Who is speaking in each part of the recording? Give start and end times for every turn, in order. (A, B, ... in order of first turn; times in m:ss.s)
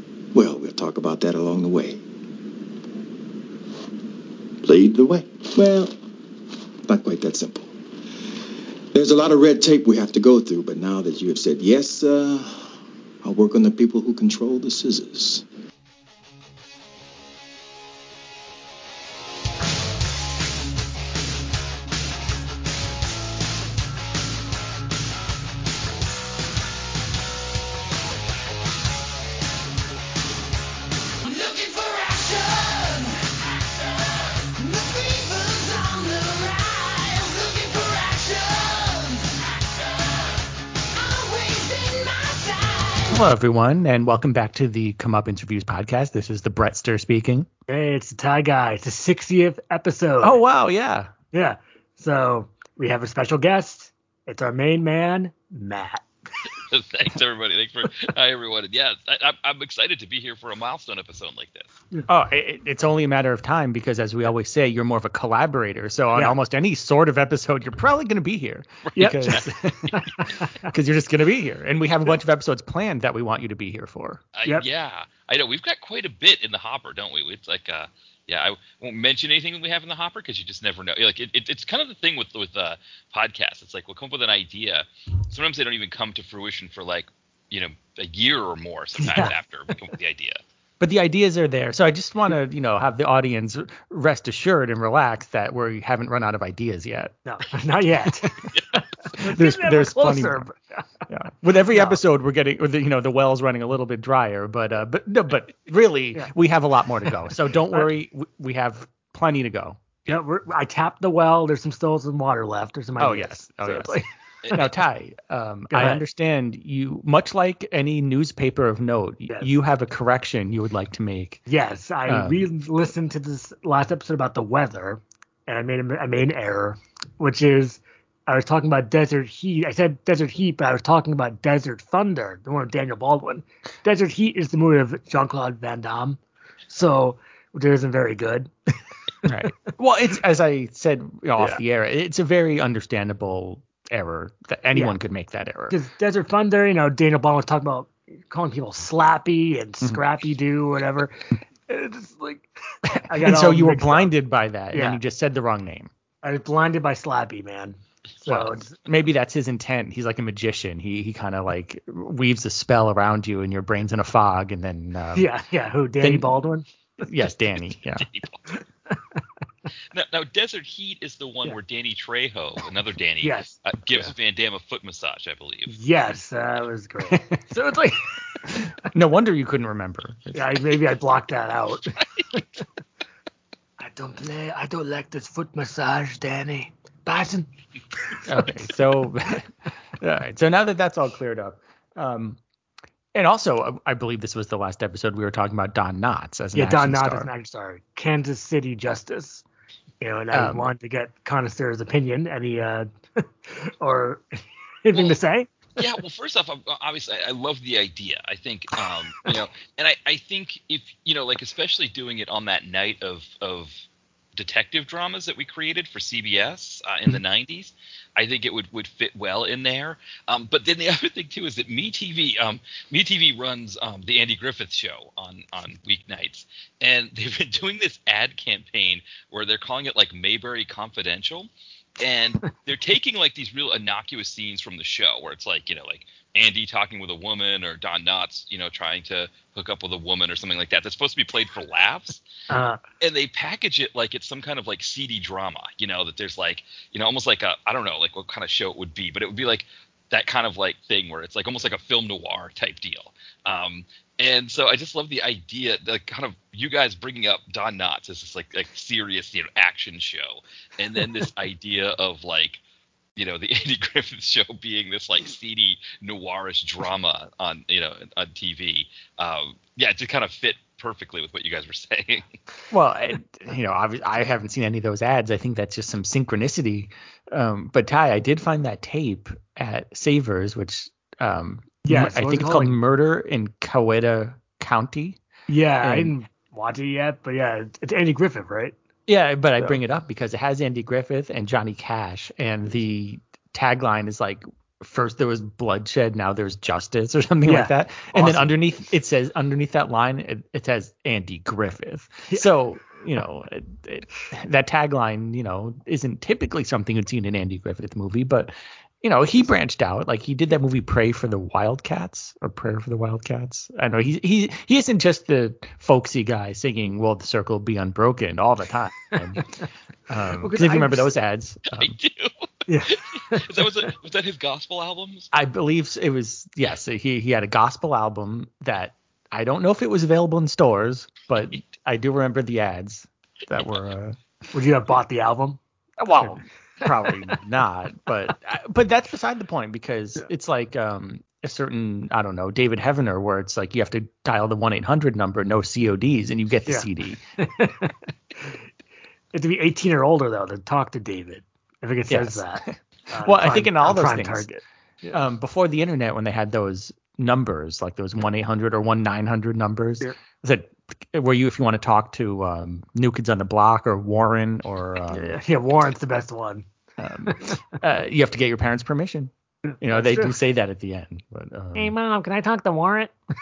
0:00.3-0:02.0 A
0:04.6-0:06.0 A
0:06.9-0:07.7 A
0:08.9-0:15.4 A
0:31.2-0:33.2 B
0:34.6-0:39.8 B
0:41.2-0:42.9 B
0:43.0-0:47.5 C
0:47.7-0:50.4 D
0:50.2-0:51.1 C
0:51.3-0:56.0 D
0:56.5-1:01.7 E
1:02.1-1:14.2 C
1:08.8-1:09.5 E
1:09.0-1:10.7 D
1:14.3-1:30.4 E
1:29.0-1:29.3 D
1:30.8-1:37.2 C
1:37.2-1:40.8 D
1:39.1-1:40.4 C
1:41.1-1:49.8 C
1:41.7-1:42.0 D
1:50.1-1:54.6 D
1:53.0-1:54.0 C
1:54.5-2:01.4 C
1:55.7-1:56.0 D
1:59.3-1:59.5 D
2:01.5-2:18.8 D
2:02.1-2:02.4 C
2:19.2-2:25.8 C
2:25.7-2:34.1 D
2:32.9-2:35.9 C
2:34.7-2:35.0 D
2:36.2-2:38.7 D
2:38.2-2:45.3 C
2:45.1-2:46.7 D
2:46.0-2:46.3 C
2:47.0-2:48.0 C
2:48.0-2:48.5 E
2:49.9-2:55.7 E
2:53.2-2:53.6 D
2:55.7-2:58.2 D
2:58.8-3:00.6 C
3:00.3-3:02.4 D
3:03.8-3:07.5 D
3:08.1-3:08.7 D
3:08.2-3:12.4 C
3:13.1-3:17.3 C
3:16.5-3:19.4 D
3:20.0-3:25.5 D
3:20.3-3:20.7 C
3:25.8-3:33.8 E
3:34.4-4:02.2 E
4:02.5-4:02.8 D
4:03.0-4:22.6 E
4:23.2-4:32.3 E
4:32.7-4:45.2 C
4:41.8-4:42.8 D
4:45.5-4:48.8 D
4:45.8-4:46.1 C
4:49.1-5:19.5 C
4:57.4-4:58.6 D
5:20.1-5:22.0 C
5:20.4-5:21.1 D
5:21.7-5:25.3 E
5:22.7-5:23.9 D
5:25.3-5:34.2 C
5:34.5-5:35.6 D
5:36.0-5:47.2 C
5:36.2-5:36.8 D
5:46.7-5:48.6 D
5:49.3-5:55.2 D
5:52.1-5:54.5 C
5:55.1-6:05.4 C
6:05.1-6:06.6 D
6:07.0-6:11.9 C
6:07.2-6:07.5 D
6:09.6-6:10.4 D
6:11.7-6:13.1 D